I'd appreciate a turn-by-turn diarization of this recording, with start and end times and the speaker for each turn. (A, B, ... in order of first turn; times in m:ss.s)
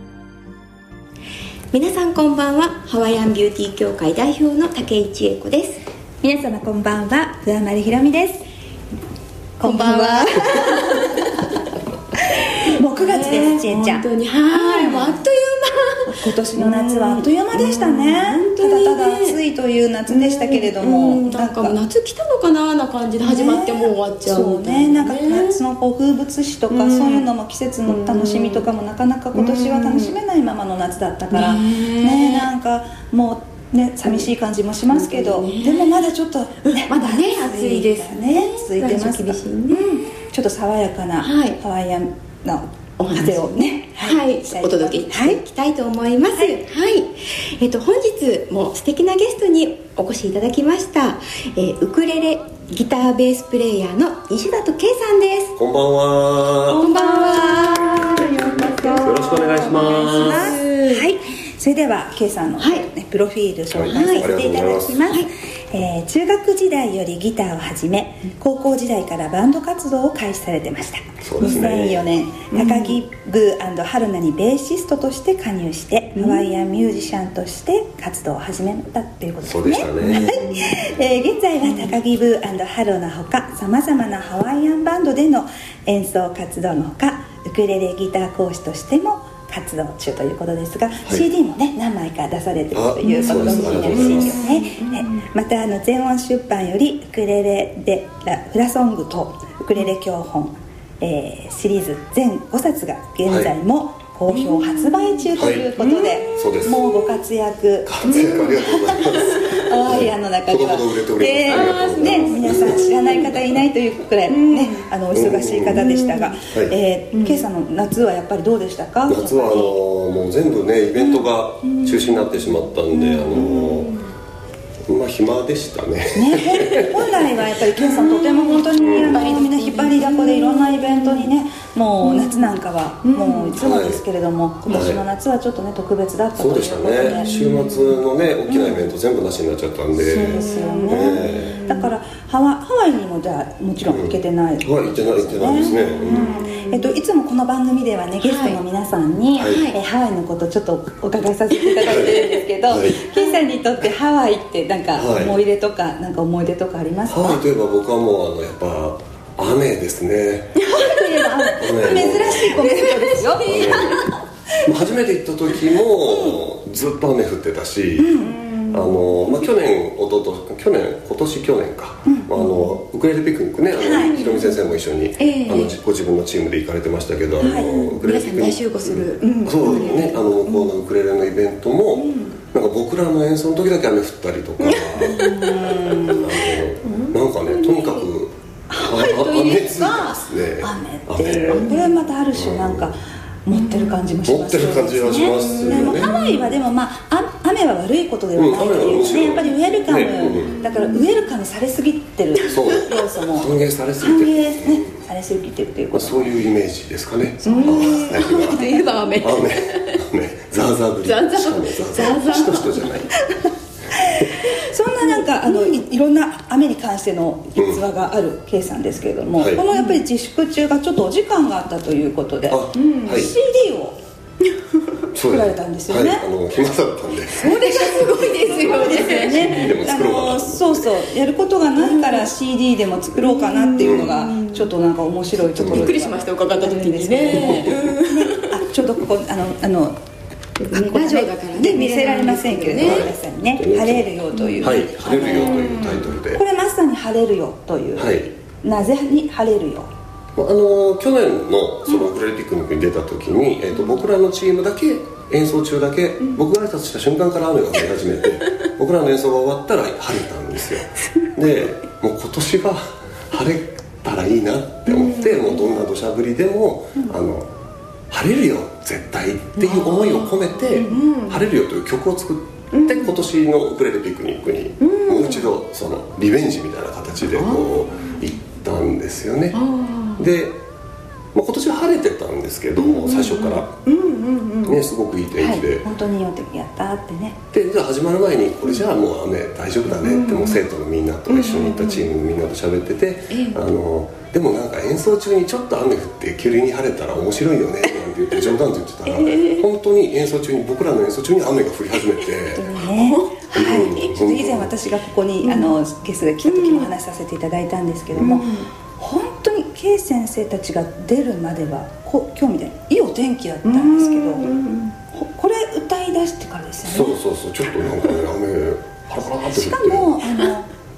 0:01.7-0:05.8 A
0:06.2-0:08.4 B
0:09.6-0:11.3 B
0:09.6-0:11.4 A
0:12.4-0:19.4 A
0:12.6-0:15.2 B
0:16.1-0:21.8 B
0:20.1-0:25.6 A
0:23.2-0:45.4 B
0:26.7-0:27.3 A
0:27.8-0:28.6 A
0:29.3-0:30.2 A
0:31.3-0:32.5 A
0:34.9-0:36.0 A
0:36.7-0:40.0 A
0:41.2-0:41.6 A
0:43.0-0:55.6 A
0:55.6-0:56.8 C
0:56.7-1:01.1 A
0:56.7-0:58.2 B
0:59.0-1:00.6 C
1:00.0-1:59.8 B
1:02.6-1:02.8 A
1:03.7-1:05.1 C
1:03.9-1:04.3 A
1:11.2-1:12.1 C
1:12.5-1:13.0 A
1:19.4-1:20.7 C
1:20.1-1:20.6 A
1:21.6-1:21.9 A
1:32.7-1:34.4 C
1:33.0-1:35.2 A
1:44.4-1:46.3 A
1:45.4-1:45.7 C
1:46.3-1:46.8 C
1:47.8-1:53.2 C
1:48.3-1:48.7 A
1:51.4-1:53.3 A
1:54.3-1:54.9 A
1:55.1-1:55.9 C
1:55.7-1:56.4 A
1:57.1-1:57.4 A
1:59.1-2:03.9 C
2:01.0-2:01.3 B
2:01.8-2:02.2 A
2:02.9-2:03.7 B
2:03.0-2:03.9 A
2:04.9-2:07.3 C
2:06.1-2:17.3 B
2:07.8-2:11.3 A
2:08.8-2:09.3 C
2:12.0-2:13.6 A
2:13.6-2:14.0 C
2:14.7-2:15.0 C
2:16.4-2:21.6 C
2:17.0-2:18.0 A
2:18.5-2:18.9 B
2:20.0-2:37.4 B
2:20.1-2:21.9 A
2:23.8-2:26.3 C
2:25.5-2:26.9 A
2:28.2-2:28.6 A
2:29.3-2:29.6 C
2:29.4-2:29.8 A
2:31.7-2:32.4 A
2:31.8-2:33.0 C
2:34.9-2:35.4 C
2:37.1-2:40.7 C
2:40.6-2:41.9 A
2:40.7-2:43.9 B
2:41.6-2:42.6 C
2:42.5-2:44.1 A
2:43.4-2:44.1 C
2:44.6-3:05.4 C
2:46.0-2:46.4 B
2:48.0-2:48.5 B
2:48.4-2:48.8 A
2:52.0-2:52.5 B
2:52.4-2:52.7 A
2:53.8-2:54.3 B
2:53.9-2:54.6 A
2:55.2-2:55.8 A
2:57.4-2:58.0 B
2:57.4-3:00.7 A
2:59.2-3:00.1 B
3:02.0-3:02.4 A
3:04.6-3:06.2 A
3:05.0-3:06.4 B
3:06.0-3:11.8 C
3:06.8-3:08.1 A
3:08.7-3:26.4 B
3:09.4-3:10.0 A
3:11.5-3:11.9 A
3:12.3-3:13.0 C
3:13.5-3:14.2 A
3:14.2-3:16.1 C
3:15.4-3:16.6 A
3:18.4-3:20.6 C
3:20.2-3:21.0 A
3:22.5-3:24.9 C
3:25.9-3:33.1 C
3:27.4-3:28.2 B
3:27.4-3:30.0 A
3:31.0-3:33.5 A
3:34.0-3:44.0 B
3:35.4-3:35.8 A
3:37.6-3:37.8 C
3:39.4-3:39.6 C
3:39.7-3:40.0 A
3:42.5-3:43.3 C
3:42.8-3:43.1 A
3:45.1-3:50.9 C
3:45.2-3:46.2 B
3:47.3-3:49.7 A
3:48.5-4:00.0 B
3:51.8-3:52.3 A
3:53.2-3:54.6 A
3:53.8-3:54.2 C
3:55.5-3:55.9 C
3:55.6-3:58.6 A
4:00.6-4:03.1 A
4:00.7-4:09.9 B
4:02.8-4:06.4 C
4:04.3-4:06.1 A
4:08.0-4:08.4 C
4:10.4-4:27.5 C
4:24.9-4:25.8 A
4:28.1-4:39.6 C
4:29.6-4:31.4 A
4:32.7-4:33.2 A
4:34.8-4:35.5 A
4:37.2-4:37.7 A
4:39.5-4:40.2 A
4:40.2-4:40.6 C
4:41.3-4:43.7 C
4:42.8-4:44.8 A
4:44.6-4:45.8 C
4:45.4-4:47.4 B
4:47.5-5:02.7 C
4:50.0-4:50.6 A
4:51.3-4:52.1 A
4:53.3-4:53.6 A
4:59.1-4:59.6 A
5:02.5-5:14.5 B
5:03.0-5:03.4 A
5:03.5-5:04.7 C
5:05.4-5:05.7 A
5:06.5-5:06.9 A
5:08.2-5:08.7 A
5:13.6-5:14.9 A
5:15.1-5:17.2 B
5:16.8-5:20.2 C
5:19.5-5:20.7 B